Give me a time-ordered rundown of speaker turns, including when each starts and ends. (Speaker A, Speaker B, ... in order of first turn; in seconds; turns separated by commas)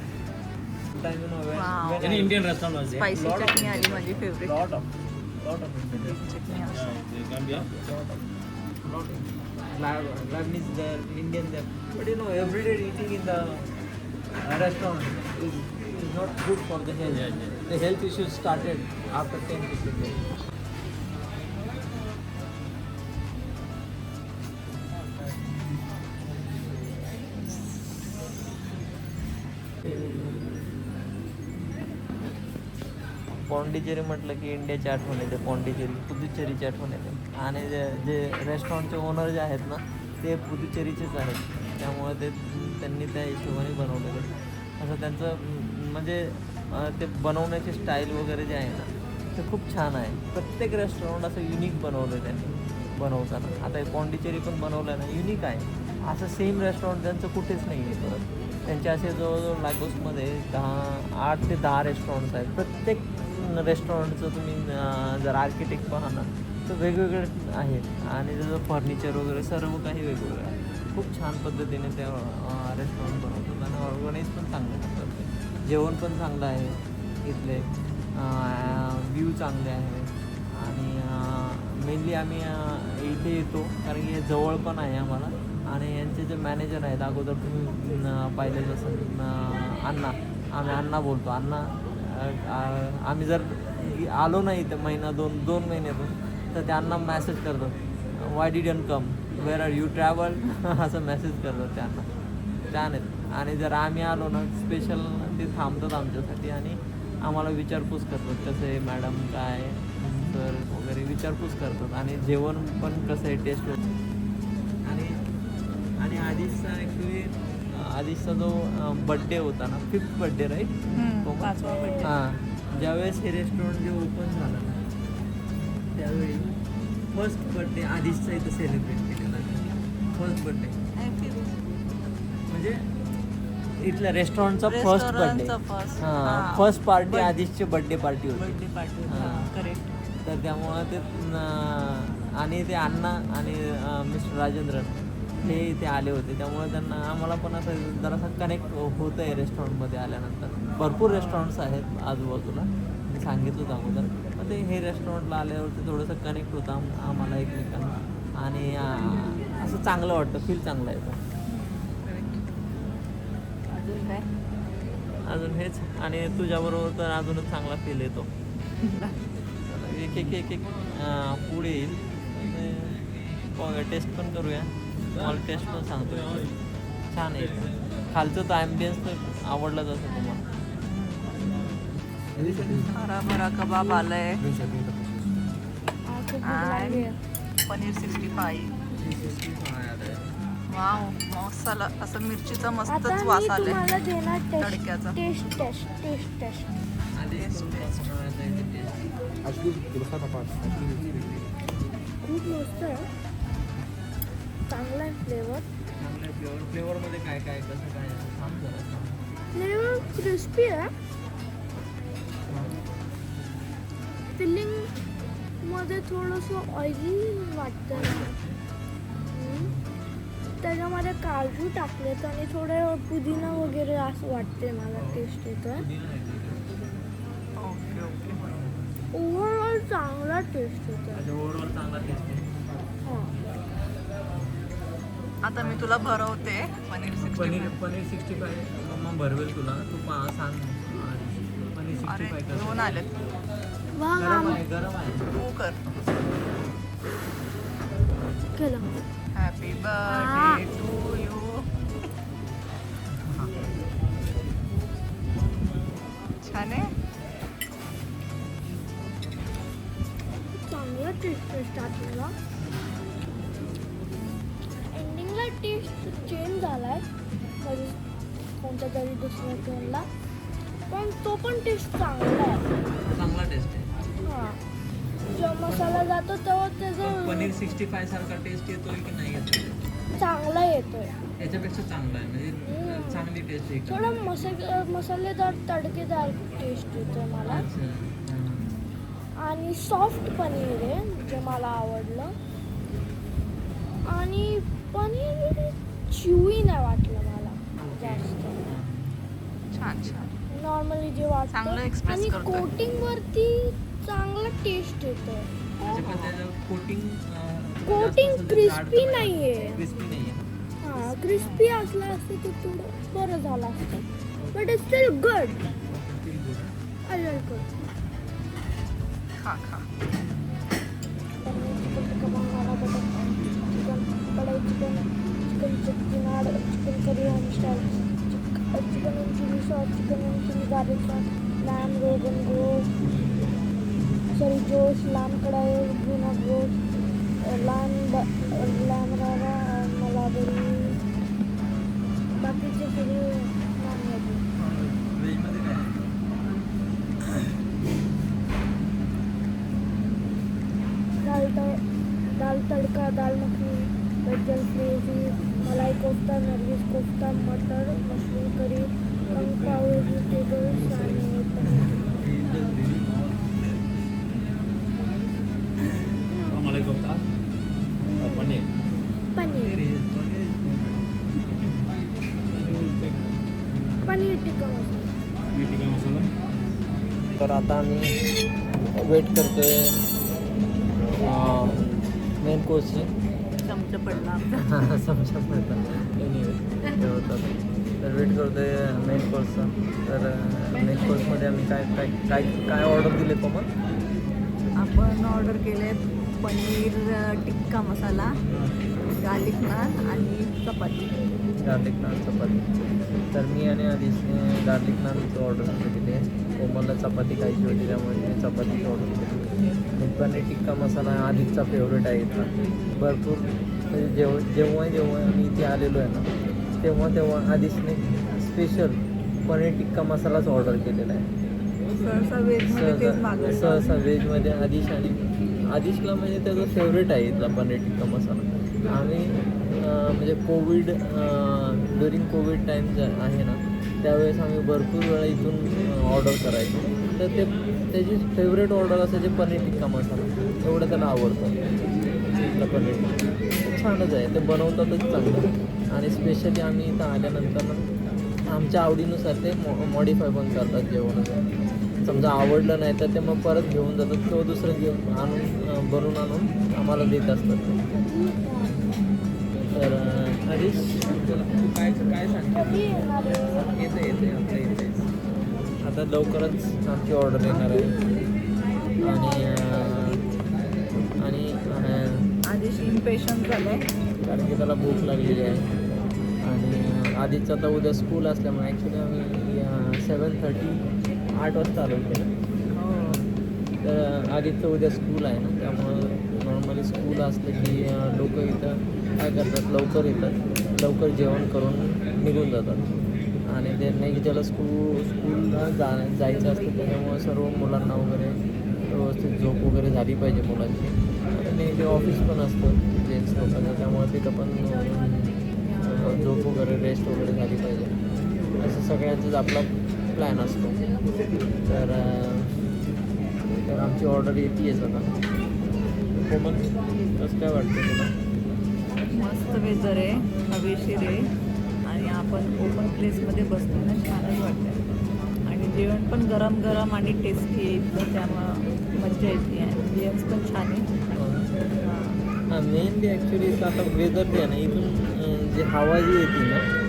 Speaker A: 0.9-6.8, Speaker B: 1.5-2.2, Speaker C: 2.0-3.1, Speaker B: 2.8-4.6, Speaker B: 5.9-7.0, Speaker C: 6.7-7.7, Speaker A: 7.5-8.3, Speaker A: 8.8-13.7, Speaker A: 14.4-20.2, Speaker C: 17.1-17.6, Speaker A: 33.4-102.1, Speaker A: 102.7-113.8, Speaker A: 114.8-124.8, Speaker B: 120.9-122.1, Speaker A: 125.9-126.5, Speaker A: 127.1-130.8, Speaker B: 130.9-131.6, Speaker A: 132.5-132.9, Speaker A: 133.8-139.5, Speaker B: 134.7-137.3, Speaker B: 138.3-139.9, Speaker A: 140.2-161.2, Speaker B: 151.1-151.5, Speaker B: 161.5-162.4, Speaker B: 163.8-164.2, Speaker A: 165.2-168.3, Speaker B: 168.8-169.2, Speaker A: 169.7-176.5, Speaker A: 177.1-180.5, Speaker B: 180.8-181.7, Speaker A: 182.3-182.9, Speaker B: 182.9-184.4, Speaker A: 184.4-185.1, Speaker B: 185.2-185.6, Speaker D: 186.1-187.1, Speaker B: 186.4-187.1, Speaker B: 187.7-188.7, Speaker A: 188.9-190.4, Speaker B: 190.7-193.8, Speaker D: 192.8-196.7, Speaker B: 194.6-195.2, Speaker A: 197.1-199.7, Speaker B: 197.4-198.1, Speaker C: 199.6-201.1, Speaker A: 200.7-201.5, Speaker D: 202.2-203.1, Speaker D: 204.7-205.7, Speaker A: 206.0-209.2, Speaker D: 209.5-210.9, Speaker A: 212.4-212.8, Speaker D: 214.3-214.9, Speaker D: 215.6-218.3, Speaker A: 217.9-218.6, Speaker D: 219.3-219.7, Speaker A: 219.5-219.8, Speaker D: 220.6-225.8, Speaker A: 224.9-226.7, Speaker B: 227.6-228.4, Speaker D: 229.1-231.2, Speaker A: 231.1-232.5, Speaker D: 233.0-233.3, Speaker A: 234.3-234.7, Speaker B: 235.4-237.8, Speaker A: 235.6-236.0, Speaker A: 237.1-243.0, Speaker B: 242.0-243.1, Speaker D: 243.9-244.6, Speaker A: 244.2-245.3, Speaker B: 245.3-245.8, Speaker D: 248.6-248.9, Speaker B: 249.3-251.7, Speaker D: 250.1-250.6, Speaker A: 253.1-253.6, Speaker B: 256.4-256.9, Speaker D: 260.5-262.3, Speaker D: 264.9-267.1, Speaker D: 267.6-268.0, Speaker D: 268.6-270.1, Speaker D: 270.9-272.6, Speaker A: 273.1-273.9, Speaker D: 274.2-274.6, Speaker D: 275.3-277.5, Speaker A: 275.6-276.1, Speaker A: 277.0-279.8, Speaker D: 280.2-281.1, Speaker A: 281.4-284.1, Speaker D: 282.6-283.2, Speaker D: 283.9-287.6, Speaker A: 287.5-288.8, Speaker D: 289.4-292.3, Speaker D: 294.1-298.6, Speaker A: 297.8-299.1, Speaker B: 299.7-300.3, Speaker D: 300.5-306.0, Speaker B: 301.5-302.7, Speaker A: 305.8-310.4, Speaker B: 305.9-306.3, Speaker D: 307.9-309.8, Speaker D: 310.8-314.0, Speaker B: 311.0-311.7, Speaker D: 314.5-315.6, Speaker A: 315.7-316.7, Speaker D: 317.1-317.7, Speaker B: 319.4-319.9, Speaker D: 321.4-332.9, Speaker D: 334.3-336.8, Speaker D: 337.4-341.0, Speaker D: 342.4-344.4, Speaker A: 344.6-346.1, Speaker D: 351.2-351.8, Speaker D: 352.4-361.9, Speaker A: 361.7-362.7, Speaker C: 362.4-363.5, Speaker D: 366.2-366.7, Speaker C: 366.5-367.2, Speaker D: 368.0-368.5, Speaker C: 368.2-368.7, Speaker D: 369.3-369.8, Speaker A: 369.5-371.0, Speaker A: 371.6-371.9, Speaker C: 372.7-373.1, Speaker D: 374.0-375.1, Speaker C: 375.5-376.3, Speaker A: 377.2-378.2, Speaker A: 378.8-380.0, Speaker A: 381.1-383.1, Speaker B: 383.6-384.8, Speaker A: 384.1-393.7, Speaker B: 390.7-391.3, Speaker B: 394.8-398.4, Speaker B: 399.2-401.1, Speaker A: 401.6-402.6, Speaker A: 403.3-421.3, Speaker B: 422.0-423.9, Speaker A: 422.6-441.7, Speaker A: 442.4-447.9, Speaker A: 448.5-457.8, Speaker D: 458.0-458.9, Speaker A: 459.6-465.1, Speaker D: 462.5-463.6, Speaker A: 465.8-468.0, Speaker A: 469.0-470.2, Speaker A: 471.1-472.3, Speaker B: 472.4-473.8, Speaker A: 474.2-475.7, Speaker A: 476.4-482.3, Speaker B: 482.7-483.2, Speaker A: 483.8-492.9, Speaker A: 493.4-508.0, Speaker A: 508.6-510.8, Speaker A: 511.6-512.6, Speaker A: 513.6-515.1, Speaker A: 516.1-518.1, Speaker B: 519.1-521.3, Speaker B: 521.8-524.8, Speaker B: 525.5-530.9, Speaker A: 531.1-531.5, Speaker B: 531.8-532.2, Speaker A: 532.5-536.6